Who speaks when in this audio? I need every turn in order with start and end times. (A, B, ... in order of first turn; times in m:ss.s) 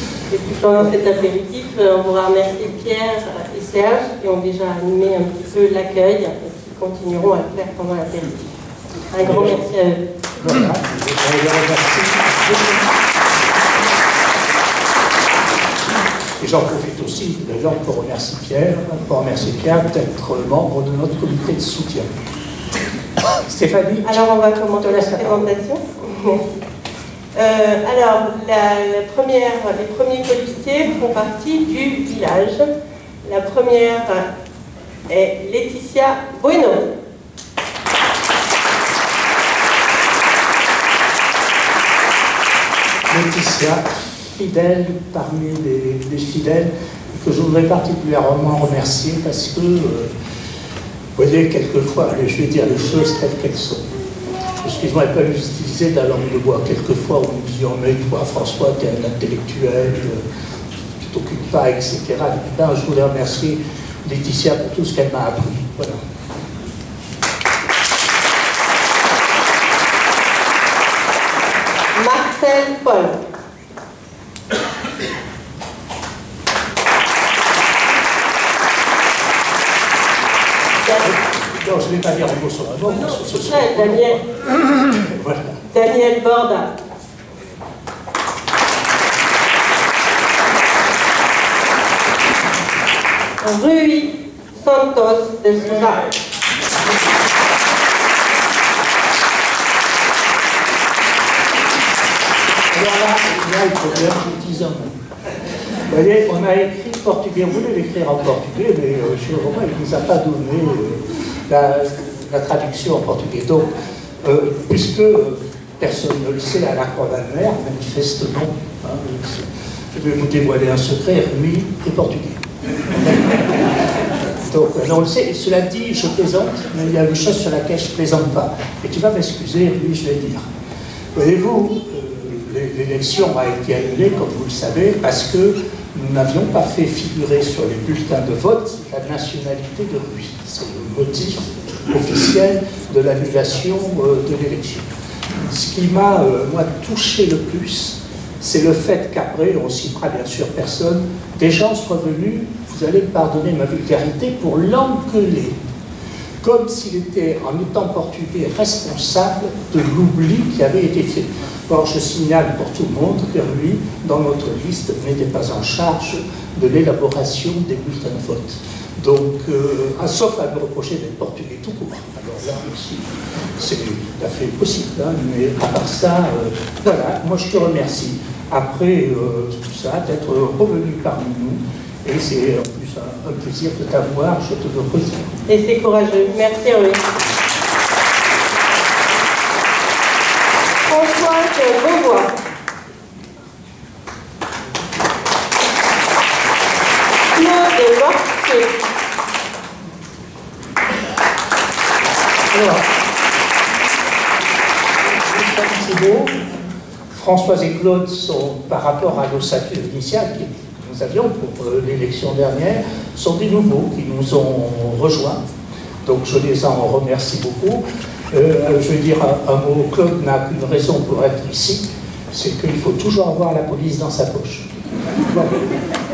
0:00.3-0:08.4 A
0:09.1-0:10.0 A
0:09.2-0:09.6 B
0:10.4-0:12.9 B
0:16.4-0:22.1 B
0:23.5-0:24.2 B
0:24.0-0:26.4 A
0:24.8-0:25.5 B
0:27.4-0:32.7 A
0:33.2-0:34.3 A
0:35.1-0:36.8 A
0:43.1-0:50.1 B
0:51.2-0:53.8 B
0:54.6-1:00.2 B
1:01.0-1:06.0 B
1:12.0-1:13.2 A
1:20.8-1:21.1 A
1:21.0-1:25.6 B
1:23.1-1:24.2 A
1:25.7-1:26.7 A
1:33.4-1:36.1 A
1:42.7-1:45.0 B
1:45.9-2:02.4 B
2:03.0-2:03.6 B
2:04.5-2:10.5 B
2:11.2-2:24.9 B
2:25.4-2:35.6 B
2:36.4-3:05.4 B
3:05.5-3:07.0 A
3:10.8-3:12.3 A
3:17.3-3:18.8 A
3:22.5-3:22.9 B
3:25.0-3:26.4 B
3:27.1-3:35.4 B
3:36.0-3:44.7 B
3:45.3-3:45.6 B